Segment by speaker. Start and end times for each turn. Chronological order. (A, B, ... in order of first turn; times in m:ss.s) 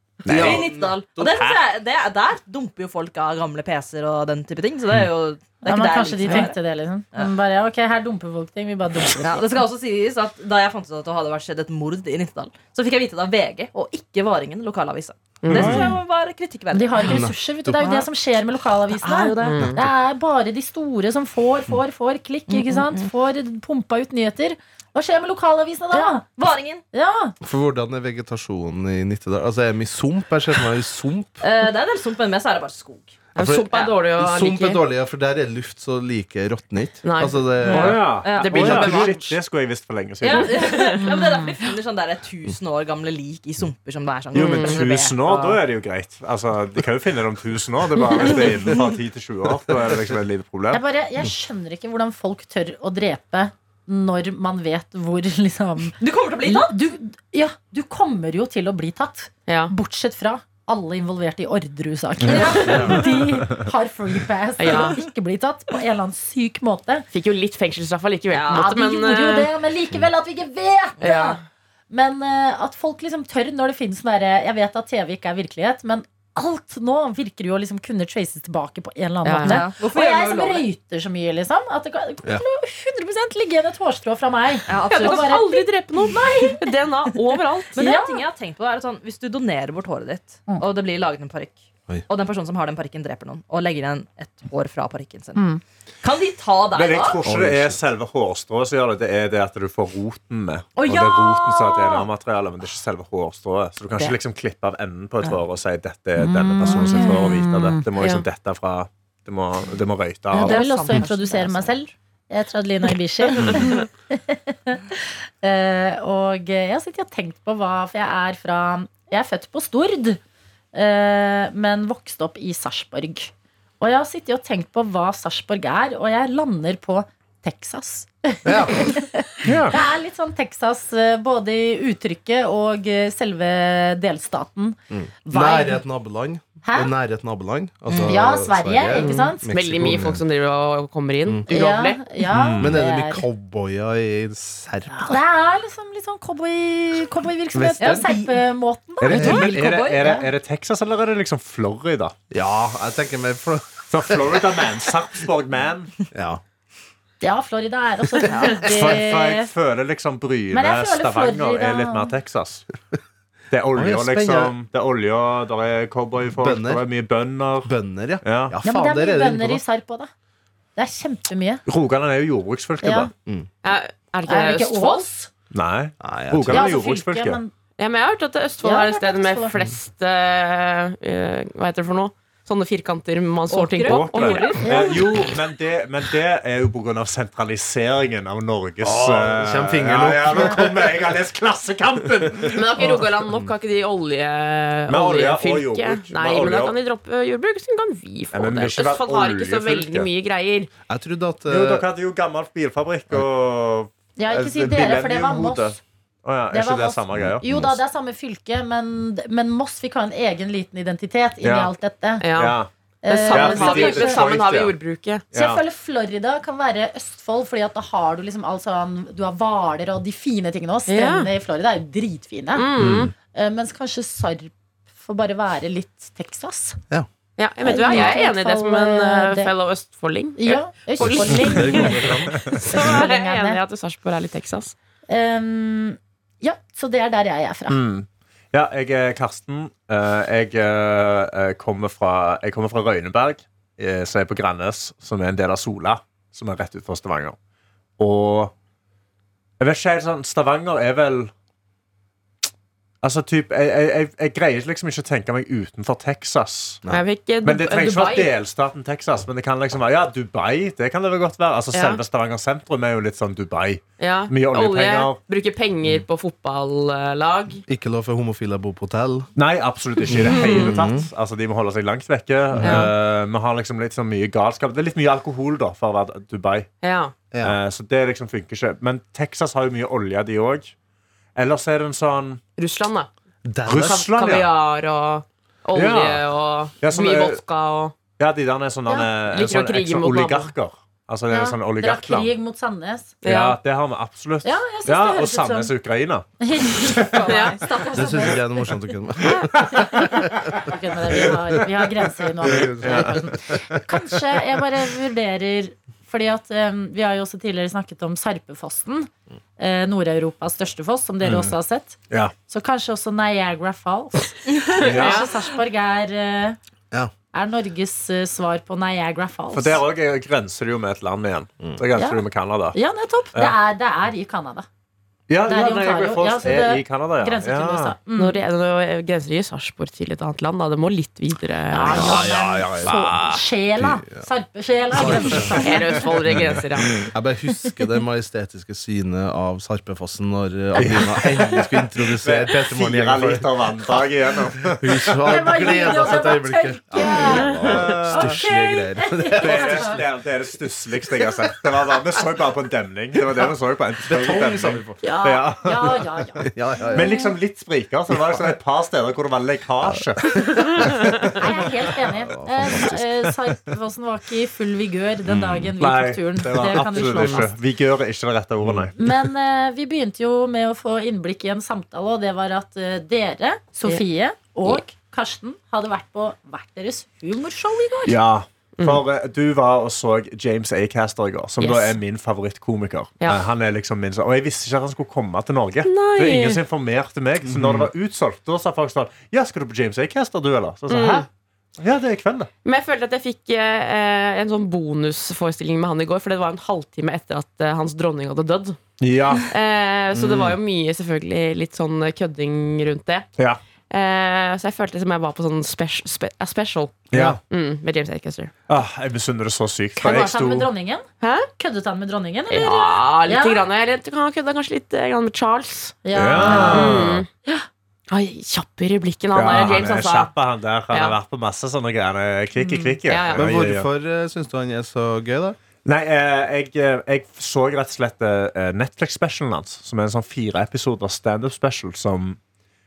0:00.2-0:01.6 A
0:00.2-0:06.6 B
0:00.2-0:01.4 C
0:05.6-0:09.4 D
0:09.1-0:17.3 B
0:15.4-0:15.8 E
0:15.5-0:15.9 A
0:15.6-0:15.9 D
0:16.7-0:26.2 D
0:17.0-0:17.7 C
0:17.8-0:18.0 B
0:19.0-0:19.7 B
0:19.4-0:19.8 E
0:19.6-0:19.9 C
0:22.5-0:23.1 B
0:25.9-0:26.8 B
0:26.9-0:27.3 D
0:27.4-0:31.4 C
0:31.4-0:33.2 B
0:33.3-0:34.8 E
0:33.4-0:33.7 C
0:34.2-0:38.2 C
0:37.0-0:39.4 E
0:37.7-0:39.2 B
0:37.7-0:40.6 A
0:40.2-0:45.6 B
0:40.3-0:41.0 E
0:41.0-0:41.5 D
0:44.3-0:50.8 A
0:44.3-0:44.8 E
0:50.7-1:07.0 D
0:56.0-0:56.8 B
0:59.5-0:59.7 E
1:02.2-1:03.2 B
1:04.6-1:05.0 E
1:07.1-1:09.5 E
1:08.3-1:08.7 B
1:08.5-1:11.4 D
1:11.0-1:11.4 E
1:11.9-1:26.6 D
1:19.2-1:19.6 E
1:19.4-1:20.7 B
1:24.7-1:26.6 B
1:24.9-1:27.8 E
1:27.7-1:35.5 B
1:27.8-1:28.2 D
1:35.3-1:35.6 D
1:36.0-1:37.2 B
1:36.7-1:50.6 A
1:37.2-1:37.8 C
1:40.8-1:42.0 B
1:46.2-1:47.8 D
1:48.0-1:48.2 E
1:50.3-1:51.8 B
1:50.3-2:00.2 D
1:53.4-1:53.8 B
2:00.7-2:15.8 D
2:08.4-2:09.1 C
2:09.4-2:09.8 A
2:14.9-2:20.2 C
2:16.6-2:16.9 D
2:17.9-2:18.1 B
2:18.0-2:19.5 D
2:18.9-2:22.0 E
2:21.5-2:23.2 D
2:22.3-2:22.8 A
2:22.5-2:25.2 C
2:24.9-2:30.3 D
2:27.5-2:28.1 C
2:27.8-2:28.4 B
2:29.0-2:32.2 A
2:29.1-2:30.2 B
2:29.1-2:29.4 C
2:32.3-2:34.6 C
2:33.9-2:35.9 A
2:36.1-2:36.4 C
2:37.2-2:39.5 D
2:38.3-2:38.6 B
2:38.6-2:42.7 A
2:40.5-2:42.1 D
2:43.5-2:48.6 A
2:43.7-2:44.5 C
2:46.4-2:46.8 C
2:47.6-2:49.6 C
2:48.6-2:50.1 D
2:50.8-2:51.6 D
2:51.6-2:53.1 A
2:52.8-2:53.1 D
2:53.6-2:55.0 E
2:54.2-2:55.3 D
2:55.5-2:57.4 A
2:56.0-2:56.7 C
2:56.5-2:57.5 D
2:57.8-3:04.9 E
2:58.6-2:59.5 D
3:03.5-3:05.1 B
3:03.8-3:13.0 A
3:04.6-3:05.0 D
3:08.8-3:11.1 C
3:12.5-3:20.7 E
3:12.8-3:13.5 C
3:14.9-3:16.8 A
3:18.3-3:20.1 A
3:20.9-3:21.8 C
3:21.5-3:27.8 A
3:24.2-3:25.8 D
3:26.5-3:32.2 D
3:27.1-3:27.7 C
3:31.4-3:31.7 A
3:32.2-3:35.2 E
3:32.3-3:32.7 A
3:33.0-3:34.2 D
3:33.3-3:34.7 A
3:35.3-3:35.6 A
3:35.3-3:42.7 D
3:40.9-3:41.3 E
3:42.5-3:43.1 E
3:42.8-3:43.1 C
3:43.3-3:46.8 D
3:47.4-3:54.7 E
3:47.6-3:49.5 D
3:50.4-3:53.6 D
3:51.0-3:52.6 C
3:55.1-3:57.8 D
3:57.7-4:07.4 A
4:08.0-4:08.5 A
4:09.6-4:11.3 A
4:13.0-4:16.8 A
4:16.9-4:18.3 E
4:17.4-4:25.2 A
4:21.7-4:22.0 E
4:24.0-4:27.6 E
4:27.7-4:29.3 C
4:29.4-4:36.7 A
4:30.1-4:31.1 C
4:30.1-4:30.8 E
4:32.5-4:32.9 C
4:32.6-4:32.9 E
4:36.8-4:37.1 E
4:37.3-4:37.6 C
4:37.4-4:40.7 A
4:41.4-4:42.4 A
4:42.6-4:43.1 E
4:43.4-4:44.1 C
4:43.6-4:44.5 A
4:43.8-4:48.0 E
4:45.7-4:46.2 A
4:46.8-4:47.4 A
4:48.2-4:52.3 A
4:49.2-4:50.5 E
4:51.3-4:53.2 D
4:53.2-4:53.6 E
4:53.2-4:57.2 A
4:54.4-4:55.7 D
4:56.4-4:58.4 D
4:57.1-4:58.3 B
4:57.2-4:57.6 E
4:57.9-5:00.5 C
4:59.4-4:59.8 A
4:59.6-5:16.6 D
5:02.4-5:03.6 C
5:02.8-5:03.1 A
5:11.2-5:11.5 A
5:14.8-5:15.3 E
5:14.8-5:15.2 A
5:17.3-5:19.8 D
5:19.5-5:22.8 A
5:21.9-5:24.6 D
5:25.3-5:27.9 A
5:25.4-5:28.4 D
5:28.2-5:32.3 E
5:31.7-5:36.1 D
5:31.8-5:33.0 C
5:31.9-5:33.4 A
5:33.8-5:34.3 C
5:34.9-5:35.7 C
5:35.6-5:37.0 E
5:36.3-5:43.5 C
5:40.8-5:45.2 A
5:44.6-5:50.0 C
5:45.2-5:50.0 D
5:47.6-5:48.4 A
5:49.4-5:56.0 A
5:54.0-5:55.0 C
5:55.0-5:57.3 D
5:56.4-5:57.3 C
5:56.9-6:01.4 A
5:58.1-5:58.4 C
5:59.8-6:01.1 C
6:01.4-6:07.5 D
6:01.9-6:03.1 C
6:05.3-6:09.1 A
6:07.0-6:07.4 E
6:08.6-6:08.9 C
6:09.0-6:18.2 D
6:18.0-6:32.5 A
6:21.6-6:22.0 E
6:25.8-6:26.6 E
6:27.4-6:27.9 C
6:30.9-6:31.2 E
6:32.6-6:38.8 E
6:39.0-6:39.5 A
6:39.5-6:43.3 E
6:40.1-6:40.5 A
6:43.9-6:48.5 E
6:47.1-6:47.4 A
6:47.1-6:47.4 C
6:48.7-6:50.7 A
6:50.0-6:51.0 D
6:51.2-6:51.5 E
6:51.6-6:53.6 D
6:52.5-6:57.3 E
6:56.0-6:57.6 D
6:56.1-6:57.2 A
6:58.1-7:00.3 E
6:59.3-7:03.9 A
7:00.9-7:01.2 E
7:02.6-7:03.4 E
7:03.3-7:05.6 C
7:05.8-7:12.4 A